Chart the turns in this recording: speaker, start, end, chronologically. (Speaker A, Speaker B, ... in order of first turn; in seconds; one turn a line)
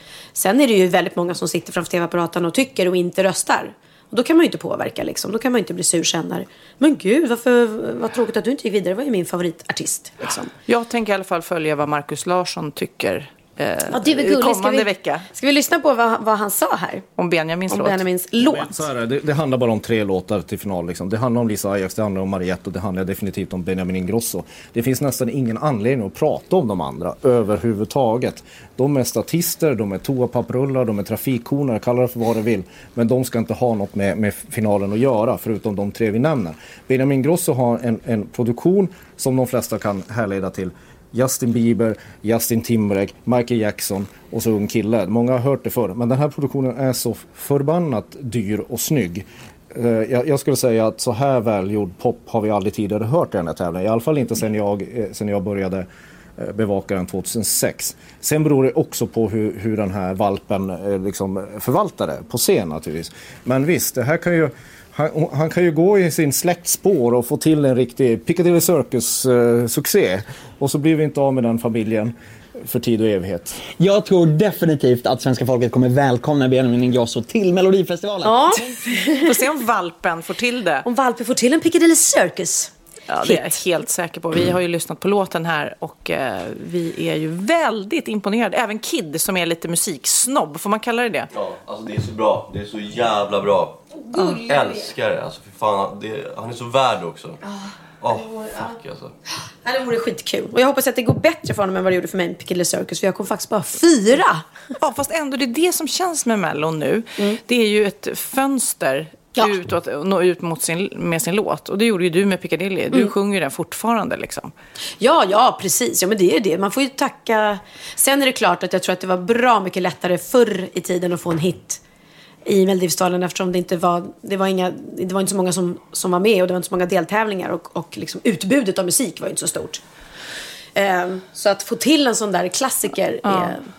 Speaker A: 0.3-10.5
Speaker B: 10.7-15.2
Speaker A: 13.9-17.1
Speaker B: 17.2-18.0
Speaker A: 17.7-18.8
Speaker C: 18.4-55.9
Speaker C: 56.4-73.6
Speaker D: 73.8-78.5
Speaker A: 78.2-79.3
Speaker B: 79.2-80.9
Speaker A: 80.8-82.7
Speaker B: 83.1-91.3
Speaker A: 83.2-83.5
Speaker E: 91.3-97.4
Speaker E: 98.0-99.1
Speaker A: 98.2-98.7
Speaker A: 99.6-104.4
Speaker B: 104.8-114.5
Speaker A: 115.0-121.8
Speaker A: 122.5-129.8
Speaker A: 130.8-133.6
Speaker B: 133.2-133.6